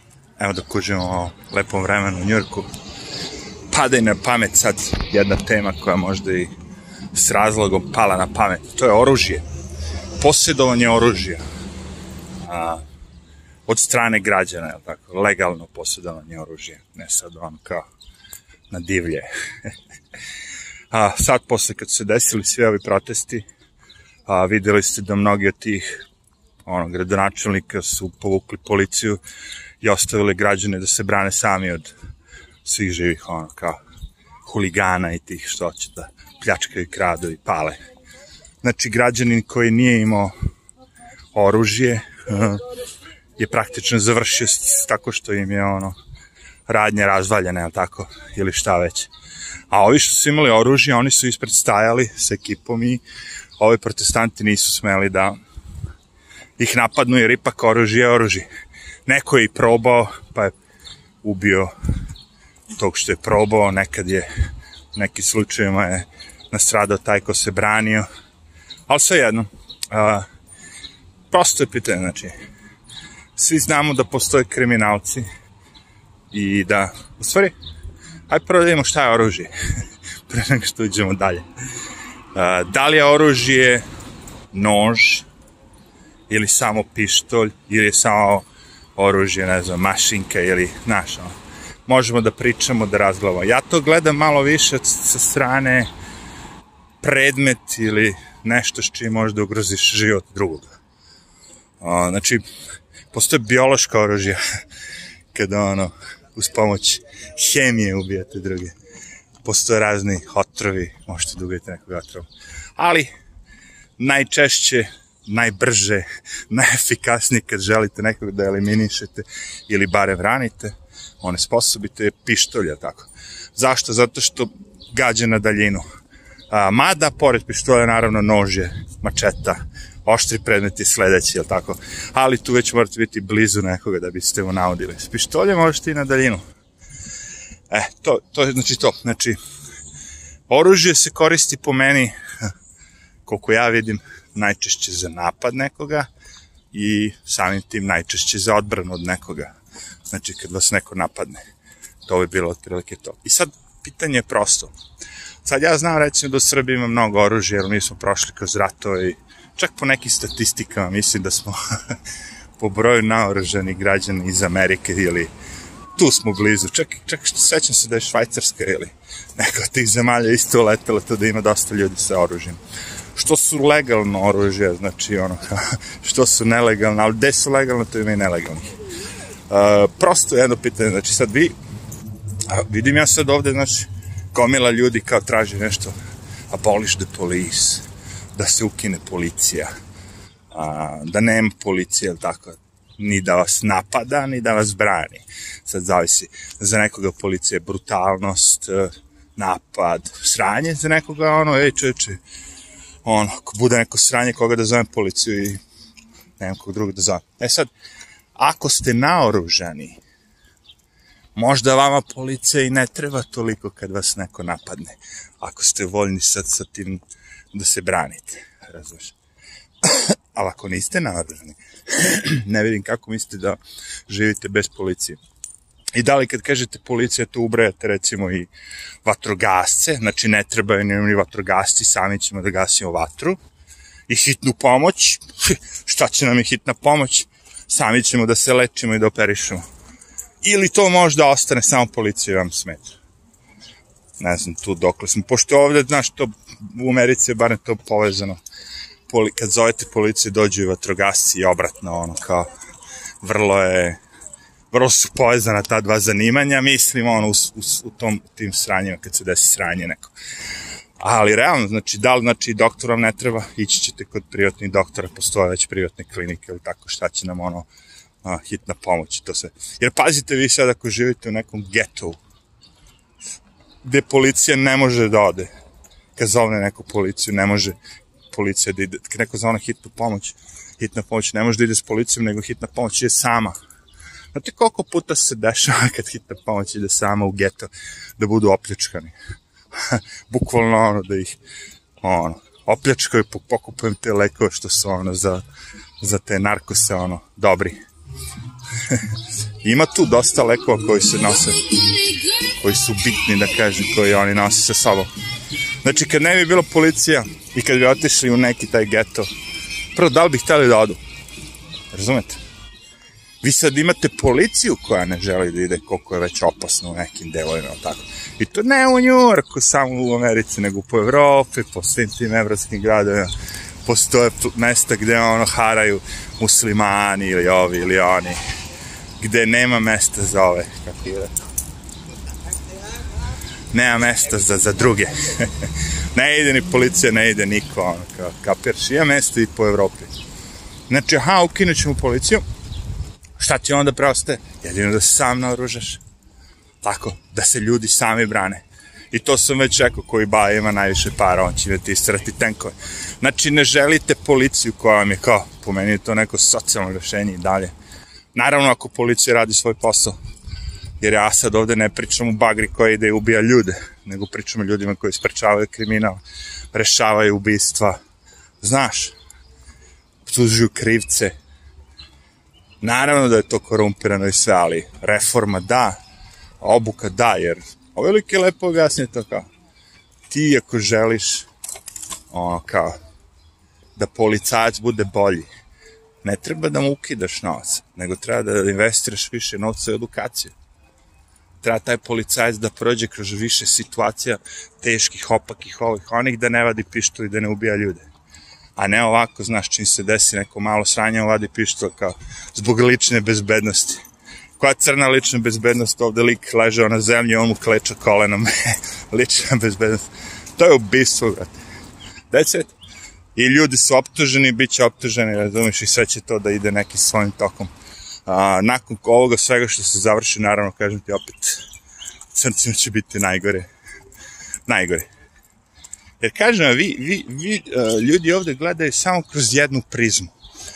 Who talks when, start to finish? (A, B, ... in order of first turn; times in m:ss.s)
0:00.4-0:02.7 A
0:03.7-0:06.5 A
0:07.1-0:09.4 A
0:10.2-0:11.4 A
0:12.4-0:12.8 A
0:13.7-0:17.9 A
0:18.7-0:19.7 A
0:20.9-0:23.4 A
0:24.3-0:26.1 A
0:26.6-0:29.2 A
0:29.8-0:31.9 A
0:32.6-0:33.8 A
0:34.4-0:37.8 A
0:38.6-0:40.4 A
0:41.3-0:42.7 A
0:43.4-0:46.0 A
0:46.7-0:49.1 A
0:49.7-0:53.0 A
0:53.6-0:55.4 A
0:56.6-0:58.5 A
0:59.1-1:00.5 A
1:01.2-1:01.7 A
1:02.7-1:04.3 A
1:04.9-1:08.1 A
1:08.9-1:10.3 A
1:11.3-1:12.3 A
1:13.4-1:15.3 A
1:16.3-1:17.6 A
1:18.3-1:19.5 A
1:20.3-1:21.5 A
1:22.3-1:23.8 A
1:24.5-1:25.3 A
1:26.3-1:31.4 A
1:31.9-1:35.9 A
1:37.0-1:40.7 A
1:41.8-1:42.4 A
1:43.1-1:44.4 A
1:45.3-1:48.7 A
1:49.4-1:53.1 A
1:54.0-2:05.8 A
2:06.5-2:16.4 A
2:17.7-2:19.4 A
2:20.5-2:22.1 A
2:23.3-2:26.1 A
2:26.7-2:29.5 A
2:30.1-2:31.4 A
2:32.1-2:34.7 A
2:35.4-2:42.0 A
2:42.6-2:45.3 A
2:46.0-2:52.6 A
2:53.2-2:58.8 A
2:59.5-3:01.6 A
3:02.5-3:06.0 A
3:06.5-3:09.7 A
3:10.5-3:22.2 A
3:23.0-3:25.6 A
3:26.4-3:27.7 A
3:28.4-3:30.0 A
3:31.4-3:37.0 A
3:37.5-3:39.2 A
3:39.8-3:45.2 A
3:45.9-3:48.5 A
3:49.0-3:53.4 A
3:54.1-3:59.6 A
4:00.4-4:03.0 A
4:04.2-4:08.4 A
4:09.1-4:12.5 A
4:13.2-4:14.0 A
4:14.7-4:20.1 A
4:21.0-4:27.7 A
4:28.2-4:32.2 A
4:33.8-4:35.5 A
4:36.2-4:37.8 A
4:38.3-4:43.6 A
4:44.3-4:49.2 A
4:49.8-4:51.4 A
4:52.0-4:55.4 A
4:56.0-4:57.8 A
4:58.8-4:59.1 A
4:59.6-5:05.1 A
5:05.8-5:09.3 A
5:09.9-5:11.0 A
5:11.9-5:12.4 A
5:13.4-5:23.3 A
5:23.8-5:28.4 A
5:29.2-5:31.3 A
5:33.7-5:40.1 A
5:40.9-5:42.4 A
5:43.4-5:46.0 A
5:46.8-5:57.7 A
5:58.3-6:00.2 A
6:01.0-6:06.2 A
6:06.7-6:08.0 A
6:08.6-6:09.2 A
6:10.2-6:11.4 A
6:12.8-6:16.0 A
6:16.6-6:19.5 A
6:20.3-6:21.5 A
6:22.3-6:23.0 A
6:24.0-6:25.5 A
6:26.2-6:30.5 A
6:31.6-6:38.1 A
6:38.8-6:44.0 A
6:44.6-6:51.6 A
6:52.3-6:52.8 A
6:53.4-6:57.7 A
6:58.3-7:01.6 A
7:02.3-7:03.7 A
7:04.7-7:05.1 A
7:06.2-7:10.3 A